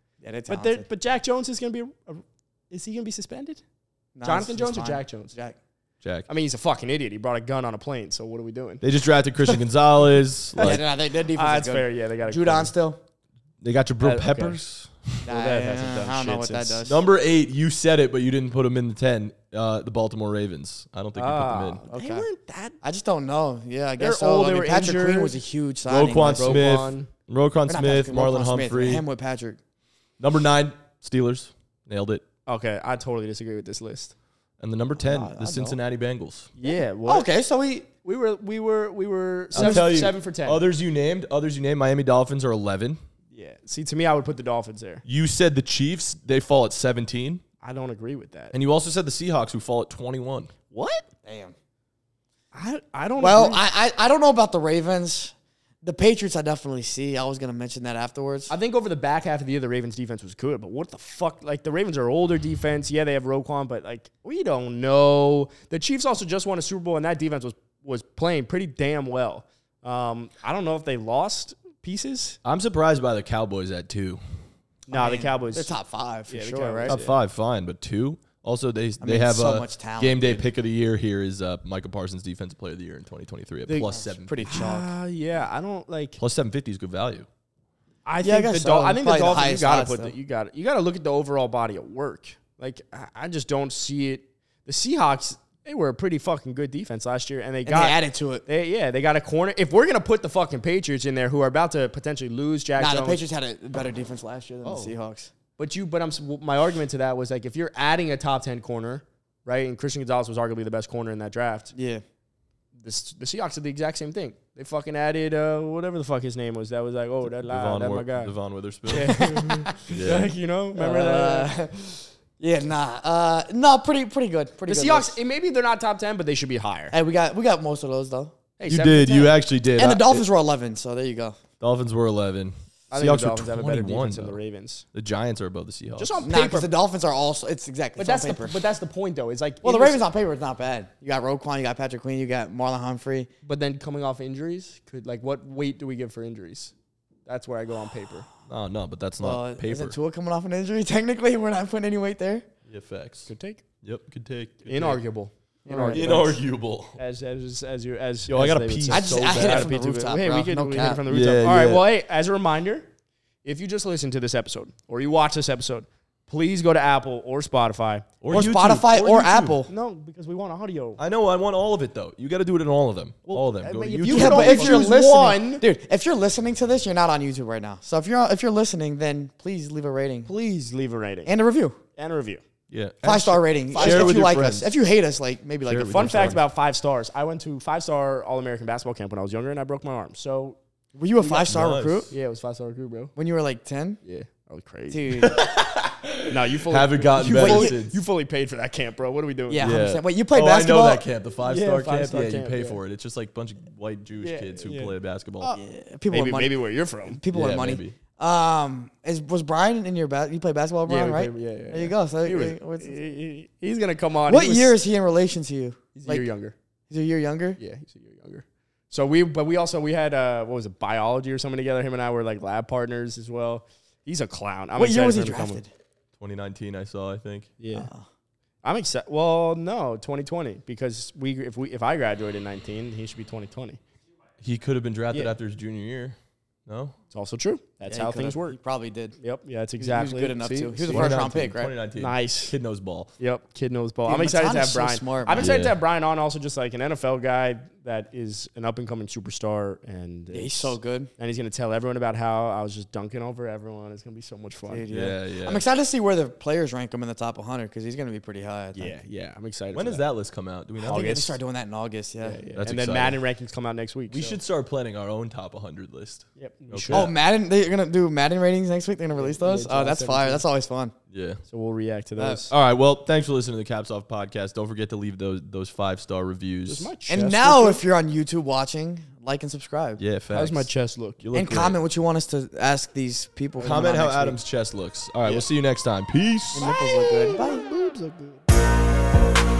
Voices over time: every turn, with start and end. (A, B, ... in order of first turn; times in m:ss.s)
0:00.2-0:00.8 A
0:00.5-0:03.6 B
0:04.2-0:05.6 A
0:04.2-0:05.3 B
0:06.0-0:06.3 C
0:06.3-0:08.8 B
0:08.8-0:10.8 C
0:10.6-0:12.7 B
0:10.6-0:13.0 A
0:13.6-0:15.2 C
0:14.0-0:14.6 B
0:15.2-0:17.0 A
0:15.3-0:16.8 B
0:16.8-0:21.8 C
0:21.2-0:22.8 B
0:21.9-0:22.3 A
0:22.8-0:26.7 A
0:24.0-0:25.4 B
0:25.9-0:29.0 C
0:26.3-0:27.1 B
0:27.7-0:29.6 A
0:30.2-0:32.2 C
0:32.5-0:34.1 B
0:34.6-0:36.5 C
0:35.0-0:35.8 A
0:36.6-0:37.3 B
0:36.6-0:37.9 A
0:38.0-0:40.6 B
0:39.5-0:43.0 C
0:39.5-0:39.9 A
0:43.3-0:45.0 B
0:45.0-0:47.4 C
0:47.6-0:48.5 B
0:48.5-0:50.5 C
0:50.7-0:51.0 B
0:51.2-0:51.5 A
0:52.5-0:53.6 B
0:53.2-0:58.5 A
0:58.5-1:12.4 B
1:12.4-1:14.2 C
1:14.9-1:15.7 B
1:14.9-1:16.9 A
1:16.3-1:17.1 B
1:16.9-1:24.6 C
1:19.0-1:20.4 A
1:23.7-1:23.9 B
1:23.8-1:25.0 A
1:24.4-1:26.2 B
1:26.2-1:27.2 C
1:28.0-1:43.2 B
1:28.2-1:30.1 A
1:37.6-1:38.4 A
1:42.8-1:45.3 A
1:44.6-1:44.9 B
1:45.6-1:51.7 B
1:51.7-1:52.0 A
1:52.8-1:58.3 B
1:57.3-1:59.3 C
1:58.9-2:01.6 B
1:59.0-1:59.8 A
1:59.9-2:00.3 C
2:00.8-2:05.2 A
2:04.6-2:06.9 B
2:06.9-2:08.3 A
2:08.6-2:09.4 B
2:08.7-2:10.2 C
2:09.8-2:11.4 A
2:11.6-2:14.4 C
2:12.9-2:14.8 B
2:14.9-2:16.2 C
2:16.0-2:16.7 B
2:16.2-2:18.5 A
2:18.0-2:20.0 B
2:19.6-2:23.3 A
2:23.4-2:26.7 B
2:27.2-2:28.3 B
2:28.5-2:30.0 C
2:29.2-2:32.4 A
2:32.6-2:33.3 C
2:33.3-2:33.6 B
2:33.8-2:35.0 C
2:34.6-2:36.4 B
2:35.6-2:36.4 A
2:35.9-2:37.0 C
2:37.0-2:42.9 B
2:38.3-2:39.8 C
2:38.9-2:41.0 A
2:41.0-2:41.9 C
2:43.4-2:48.1 B
2:48.2-2:49.6 C
2:48.3-2:49.7 A
2:49.7-2:51.0 B
2:51.0-2:54.9 C
2:53.3-2:55.6 B
2:54.0-3:00.3 A
3:00.2-3:01.3 B
3:01.2-3:01.8 A
3:02.0-3:02.4 B
3:02.7-3:04.7 C
3:03.0-3:06.4 A
3:03.7-3:04.4 B
3:05.6-3:06.4 C
3:05.9-3:10.6 B
3:10.9-3:12.1 A
3:11.4-3:12.1 C
3:12.1-3:13.1 B
3:13.2-3:14.0 A
3:14.0-3:15.3 B
3:14.9-3:15.4 A
3:15.2-3:18.0 C
3:16.3-3:19.7 B
3:17.2-3:17.8 A
3:19.5-3:21.0 A
3:19.6-3:25.5 C
3:21.4-3:22.8 B
3:24.2-3:24.9 B
3:25.4-3:33.0 A
3:26.1-3:27.2 B
3:27.3-3:27.9 C
3:30.8-3:34.8 B
3:34.2-3:36.3 A
3:35.9-3:36.5 B
3:36.9-3:37.6 A
3:37.6-3:45.6 B
3:44.8-3:45.7 A
3:46.2-3:47.5 C
3:47.6-3:47.9 B
3:47.7-3:48.0 A
3:48.6-3:53.8 B
3:54.4-3:56.9 C
3:57.1-3:58.6 B
3:57.9-3:59.2 A
3:59.2-4:01.2 B
3:59.8-4:01.7 A
4:00.9-4:03.1 C
4:02.0-4:02.5 B
4:03.2-4:14.8 B
4:04.0-4:05.5 A
4:05.4-4:05.8 C
4:10.3-4:11.1 A
4:14.7-4:18.9 A
4:14.9-4:15.6 C
4:18.7-4:20.0 B
4:19.7-4:21.4 C
4:20.8-4:21.3 B
4:20.8-4:22.4 A
4:22.2-4:24.4 B
4:22.6-4:23.2 C
4:24.1-4:27.1 C
4:26.4-4:27.1 B
4:26.9-4:30.9 A
4:29.2-4:30.4 B
4:31.1-4:31.4 C
4:31.5-4:32.5 B
4:32.2-4:32.4 A
4:32.5-4:36.9 C
4:36.6-4:37.8 B
4:37.1-4:40.0 A
4:40.0-4:41.8 C
4:40.3-4:41.2 B
4:41.3-4:44.4 A
4:43.6-4:46.7 C
4:46.5-4:47.6 A
4:46.6-4:48.4 B